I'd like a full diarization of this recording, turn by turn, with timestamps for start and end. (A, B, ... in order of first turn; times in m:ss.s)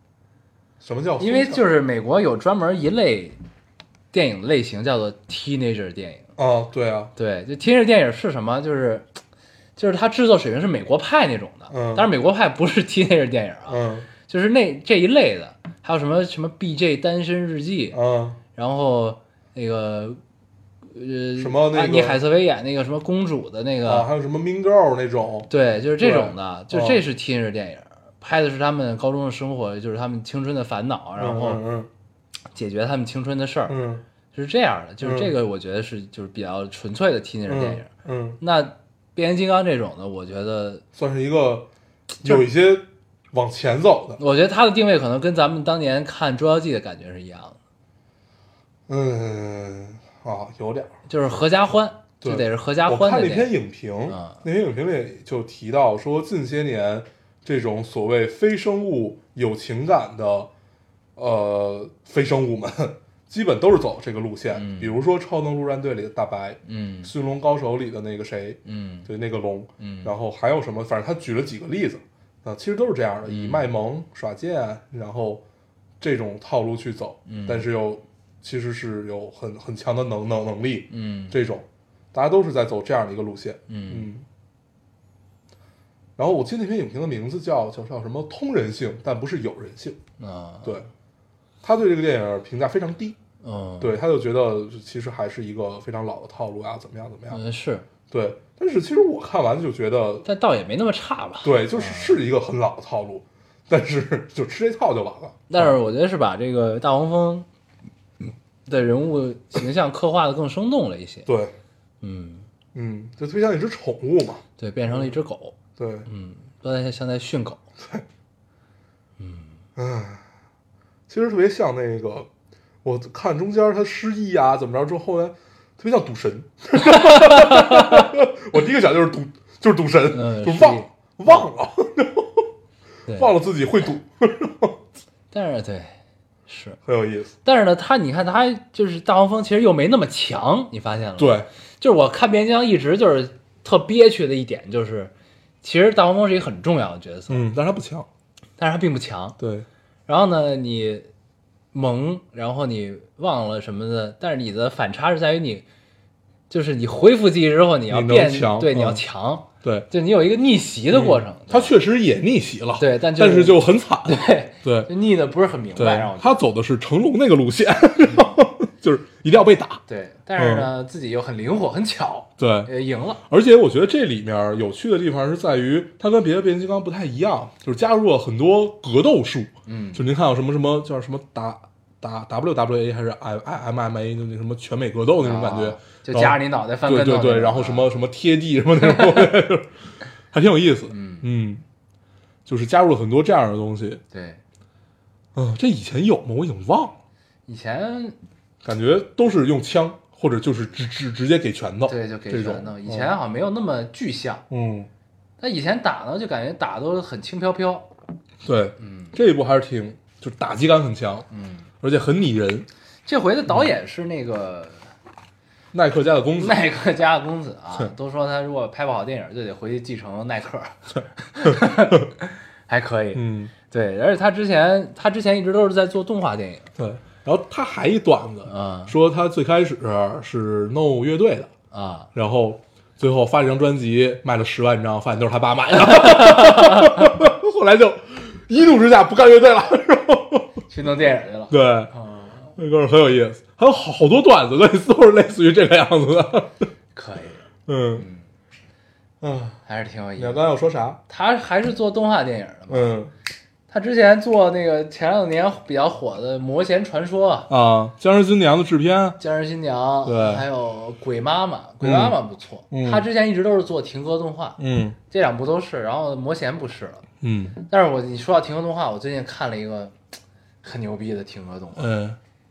0:00.8-0:01.6 A
0:01.2-0:03.4 B
0:04.1-0:06.3 B
0:06.4-0:07.1 A
0:07.2-0:09.1 B
0:09.8-0:18.0 B
0:11.7-0:12.1 A
0:13.7-0:14.1 A
0:17.9-0:18.4 A
0:18.6-0:20.2 B
0:20.9-0:24.1 B
0:21.4-0:22.2 A
0:23.8-0:27.0 A
0:25.5-0:31.6 B
0:31.2-0:31.9 A
0:32.6-0:33.8 B
0:33.7-0:34.0 A
0:34.3-0:37.9 B
0:35.0-0:35.3 A
0:37.5-0:38.4 A
0:38.4-0:40.8 B
0:40.9-0:41.7 A
0:42.2-0:44.2 A
0:44.2-0:47.6 B
0:48.9-0:50.9 A
0:51.1-0:53.5 B
0:52.2-1:00.5 A
0:54.1-0:54.4 B
1:01.2-1:15.4 A
1:04.5-1:05.0 B
1:06.6-1:07.1 B
1:08.6-1:09.1 B
1:09.8-1:10.1 B
1:13.2-1:13.7 B
1:16.0-1:24.2 A
1:17.3-1:17.7 B
1:20.9-1:21.4 B
1:23.7-1:24.1 B
1:26.2-1:30.0 A
1:30.2-1:30.8 B
1:31.6-1:33.2 A
1:33.4-1:34.0 B
1:33.8-1:37.4 A
1:37.3-1:37.9 B
1:38.1-1:40.3 A
1:40.2-1:42.2 B
1:41.4-1:45.8 A
1:45.5-1:47.5 B
1:48.7-1:51.3 B
1:51.3-1:51.6 A
1:52.0-1:52.5 B
1:52.7-1:55.1 A
1:54.6-1:57.6 B
1:55.8-1:56.1 A
1:59.2-1:59.6 B
1:59.8-2:00.2 A
2:01.1-2:02.3 A
2:02.8-2:12.5 A
2:06.8-2:08.1 B
2:10.1-2:11.4 B
2:13.1-2:13.3 B
2:13.1-2:14.8 A
2:15.3-2:16.0 B
2:16.5-2:16.8 B
2:16.8-2:17.3 A
2:17.4-2:27.5 B
2:21.2-2:21.5 A
2:27.3-2:28.1 A
2:28.6-2:29.4 B
2:29.4-2:29.7 A
2:30.1-2:31.1 B
2:31.7-2:35.6 B
2:36.5-2:41.8 B
2:37.9-2:39.0 A
2:40.9-2:44.9 A
2:42.8-2:46.4 B
2:45.8-2:49.8 A
2:49.9-2:53.2 B
2:50.4-2:50.7 A
2:52.4-2:52.7 A
2:53.3-3:09.7 A
2:59.7-3:00.0 B
3:05.2-3:07.9 B
3:10.3-3:11.6 A
3:10.9-3:11.3 B
3:12.5-3:14.0 A
3:14.1-3:14.4 B
3:15.4-3:17.0 A
3:17.5-3:18.2 B
3:18.6-3:23.1 A
3:21.9-3:24.4 B
3:24.5-3:24.9 A
3:25.4-3:27.9 B
3:28.4-3:31.3 A
3:28.8-3:29.2 B
3:31.3-3:31.7 B
3:31.8-3:32.7 A
3:33.1-3:34.9 B
3:35.7-3:36.6 A
3:36.4-3:46.7 B
3:41.5-3:41.9 A
3:43.2-3:43.5 A
3:46.8-3:51.5 A
3:48.5-3:48.9 B
3:51.7-3:52.1 B
3:52.1-4:00.6 A
3:55.8-3:57.1 B
4:00.7-4:02.6 B
4:01.5-4:01.9 A
4:02.6-4:06.7 A
4:07.0-4:07.4 B
4:07.7-4:08.1 A
4:08.0-4:08.2 B
4:09.2-4:09.6 A
4:09.6-4:10.4 B
4:10.2-4:11.0 A
4:11.1-4:12.9 B
4:12.7-4:13.1 A
4:13.7-4:17.5 B
4:17.5-4:19.2 A
4:19.2-4:27.0 B
4:20.1-4:20.5 A
4:21.8-4:22.2 A
4:22.7-4:23.1 A
4:24.6-4:25.0 A
4:27.2-4:27.6 A
4:27.7-4:30.0 B
4:30.6-4:31.9 B
4:31.8-4:32.2 A